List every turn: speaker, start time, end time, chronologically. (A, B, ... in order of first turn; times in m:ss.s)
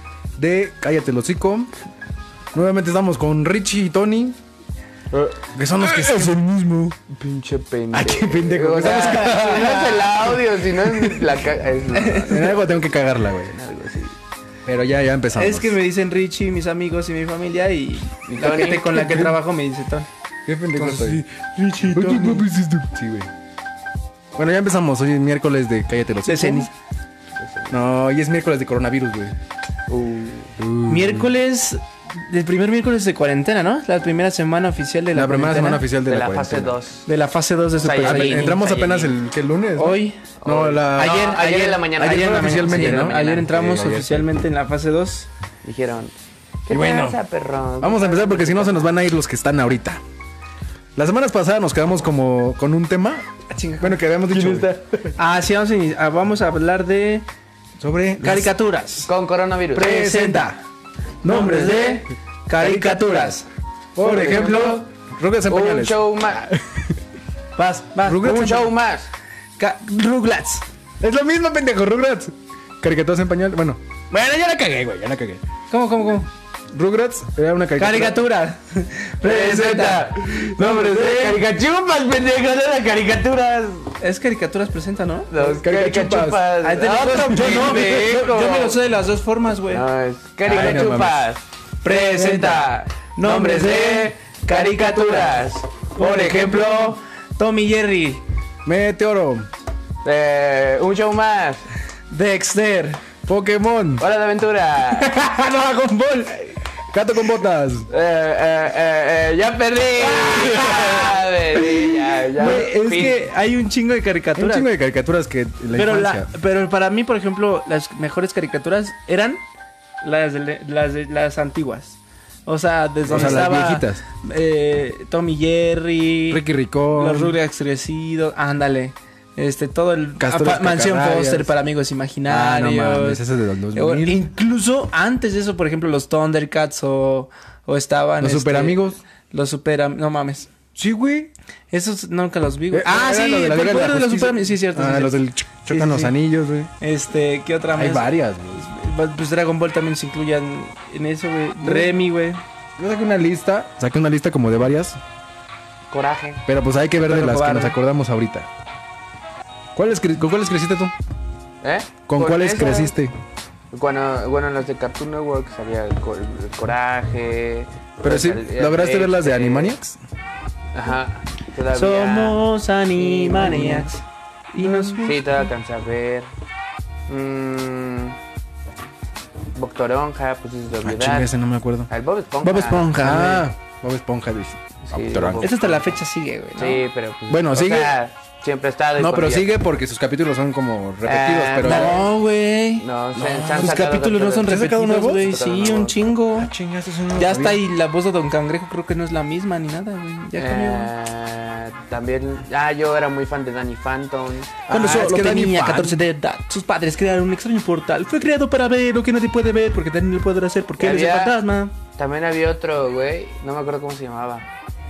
0:00.4-0:01.7 A
0:02.5-0:04.4 A
0:05.1-0:06.2 B
0:05.5-0:07.0 A
0:07.1-0:12.6 B
0:07.9-0:11.3 A
0:11.9-0:12.6 C
0:12.2-0:13.6 A
0:13.5-0:14.1 B
0:14.6-0:15.8 A
0:15.3-0:20.1 C
0:18.3-0:19.1 B
0:18.9-0:19.4 A
0:20.5-0:23.3 A
0:20.8-0:21.2 C
0:21.8-0:22.4 C
0:24.4-0:26.7 A
0:26.2-0:26.7 C
0:27.4-0:27.8 B
0:27.7-0:29.4 A
0:29.9-0:30.6 B
0:30.6-0:31.3 A
0:30.9-0:35.8 C
0:35.1-0:36.8 A
0:36.0-0:37.1 B
0:37.1-0:38.6 C
0:37.8-0:39.1 B
0:38.0-0:41.2 A
0:39.8-0:40.3 C
0:40.4-0:43.5 B
0:41.0-0:45.3 C
0:42.0-0:44.3 A
0:45.6-0:46.1 B
0:46.7-0:48.9 B
0:46.7-0:47.2 A
0:47.8-0:50.0 A
0:51.0-0:54.8 A
0:53.5-0:54.0 C
0:54.3-0:54.9 B
0:55.2-0:57.3 C
0:57.8-0:58.5 A
0:58.2-0:59.1 C
0:59.0-1:00.0 B
0:59.8-1:00.6 C
0:59.8-1:00.5 A
1:01.2-1:03.4 A
1:01.2-1:03.5 C
1:01.3-1:02.0 B
1:04.0-1:07.0 A
1:04.0-1:04.9 B
1:05.5-1:06.5 B
1:07.6-1:08.7 C
1:08.0-1:08.7 A
1:08.1-1:09.1 B
1:09.6-1:10.6 C
1:11.0-1:15.4 A
1:15.7-1:16.3 C
1:16.7-1:18.2 A
1:17.8-1:20.1 C
1:19.2-1:24.0 B
1:19.8-1:21.4 A
1:24.0-1:25.3 C
1:25.3-1:28.8 B
1:25.4-1:26.4 A
1:26.6-1:29.8 C
1:29.7-1:37.0 B
1:30.5-1:31.2 A
1:30.5-1:30.8 C
1:31.8-1:38.2 C
1:38.6-1:39.5 A
1:40.0-1:41.7 B
1:42.1-1:43.0 C
1:43.3-1:44.0 A
1:44.0-1:45.2 B
1:45.0-1:47.9 A
1:47.9-1:53.2 B
1:50.2-1:51.1 A
1:52.2-1:54.7 C
1:54.4-1:56.3 A
1:55.7-1:59.4 C
2:00.0-2:20.5 C
2:03.1-2:04.0 A
2:06.3-2:07.4 A
2:10.2-2:11.5 A
2:12.3-2:14.2 A
2:18.2-2:19.0 A
2:20.8-2:21.3 A
2:21.7-2:26.2 C
2:22.7-2:26.7 A
2:26.8-2:32.4 C
2:27.8-2:28.7 A
2:31.6-2:32.0 A
2:32.8-2:35.0 A
2:35.9-2:36.4 B
2:36.5-2:38.5 A
2:37.0-2:37.8 C
2:39.8-2:40.9 A
2:41.6-2:42.9 B
2:42.1-2:43.1 A
2:43.7-2:49.8 B
2:48.0-2:50.0 A
2:50.7-2:52.4 B
2:51.7-2:55.3 C
2:53.0-2:53.9 B
2:53.4-2:53.8 A
2:54.6-2:55.1 A
2:55.0-2:56.3 B
2:57.1-2:58.2 B
2:59.6-3:01.3 B
3:00.8-3:01.9 A
3:01.9-3:02.9 B
3:02.4-3:03.5 C
3:03.0-3:05.5 A
3:04.8-3:05.9 B
3:05.4-3:06.8 C
3:06.6-3:09.5 B
3:07.3-3:08.0 A
3:09.0-3:12.1 A
3:11.0-3:12.1 B
3:11.6-3:12.9 C
3:12.8-3:16.1 B
3:13.2-3:15.3 A
3:13.6-3:16.5 C
3:16.3-3:17.6 A
3:17.2-3:20.9 C
3:20.4-3:24.6 B
3:24.7-3:26.0 A
3:24.7-3:31.7 C
3:30.8-3:31.4 B
3:32.0-3:34.5 B